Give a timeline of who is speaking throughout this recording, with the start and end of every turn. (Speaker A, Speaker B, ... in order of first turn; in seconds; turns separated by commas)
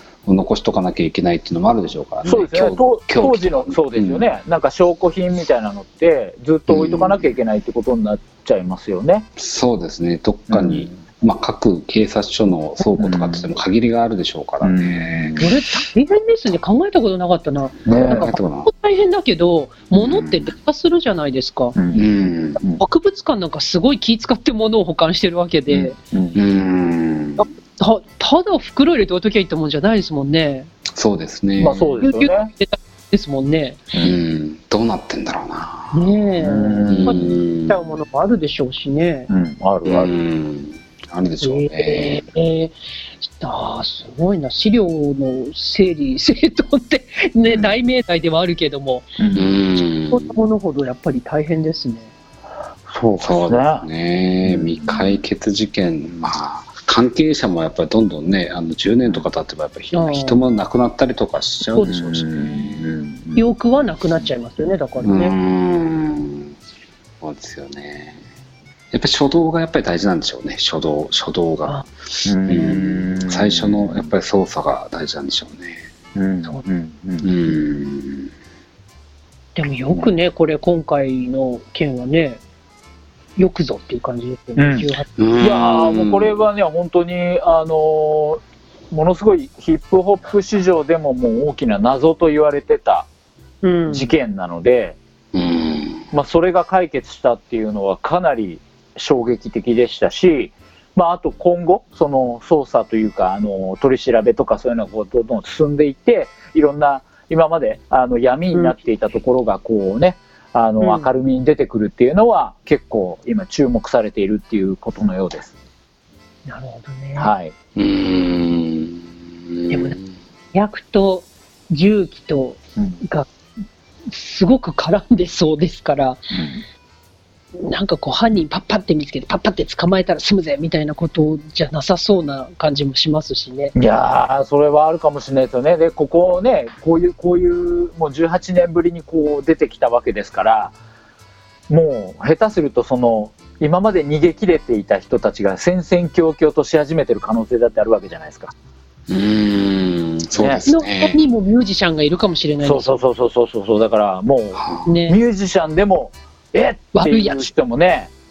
Speaker A: 0.2-4.3, Speaker B: 2.2-9.2, Speaker A: 6.7-7.3, Speaker A: 9.4-15.5, Speaker B: 10.5-11.0, Speaker B: 12.9-13.6, Speaker B: 14.6-15.5, Speaker C: 15.4-21.8, Speaker B: 17.9-18.3, Speaker A: 17.9-18.7, Speaker A: 19.9-20.5, Speaker B: 21.8-22.1, Speaker A: 21.9-22.6, Speaker C: 22.8-26.0, Speaker B: 25.7-26.4, Speaker A: 26.3-27.4, Speaker C: 27.4-30.7, Speaker A: 30.9-32.0, Speaker B: 31.6-32.5, Speaker C: 32.0-33.8, Speaker A: 34.0-36.1, Speaker C: 35.9-39.3, Speaker B: 36.4-37.2, Speaker A: 36.9-38.0, Speaker B: 39.3-40.1, Speaker A: 39.8-42.3, Speaker C: 41.4-49.1, Speaker B: 49.2-49.6, Speaker A: 49.3-50.3, Speaker C: 50.1-52.1, Speaker B: 52.9-53.9, Speaker A: 53.2-63.1, Speaker B: 54.4-55.2, Speaker C: 59.9-60.4, Speaker B: 61.8-63.5, Speaker C: 63.4-65.3, Speaker A: 65.0-66.5, Speaker A: 67.2-68.2, Speaker A: 68.9-75.9, Speaker B: 72.2-74.1, Speaker C: 72.5-72.8, Speaker B: 76.1-77.3, Speaker A: 77.2-78.3, Speaker C: 79.5-82.4, Speaker C: 83.3-85.1, Speaker B: 84.6-84.9, Speaker A: 85.2-86.4, Speaker B: 85.4-93.1, Speaker C: 93.6-94.1, Speaker B: 93.9-95.0, Speaker A: 95.3-96.0, Speaker B: 96.1-115.5, Speaker C: 110.8-111.1, Speaker C: 116.5-117.3, Speaker B: 117.2-117.5, Speaker A: 117.8-120.0, Speaker C: 119.7-120.0, Speaker C: 120.5-123.3, Speaker C: 124.1-126.2, Speaker B: 126.3-126.6, Speaker C: 127.6-133.7, Speaker B: 133.8-140.7, Speaker B: 141.7-148.5, Speaker A: 149.1-151.2, Speaker B: 150.3-150.6, Speaker C: 150.7-153.0, Speaker B: 152.6-158.1, Speaker A: 154.6-154.9, Speaker C: 154.8-155.2, Speaker C: 156.9-157.5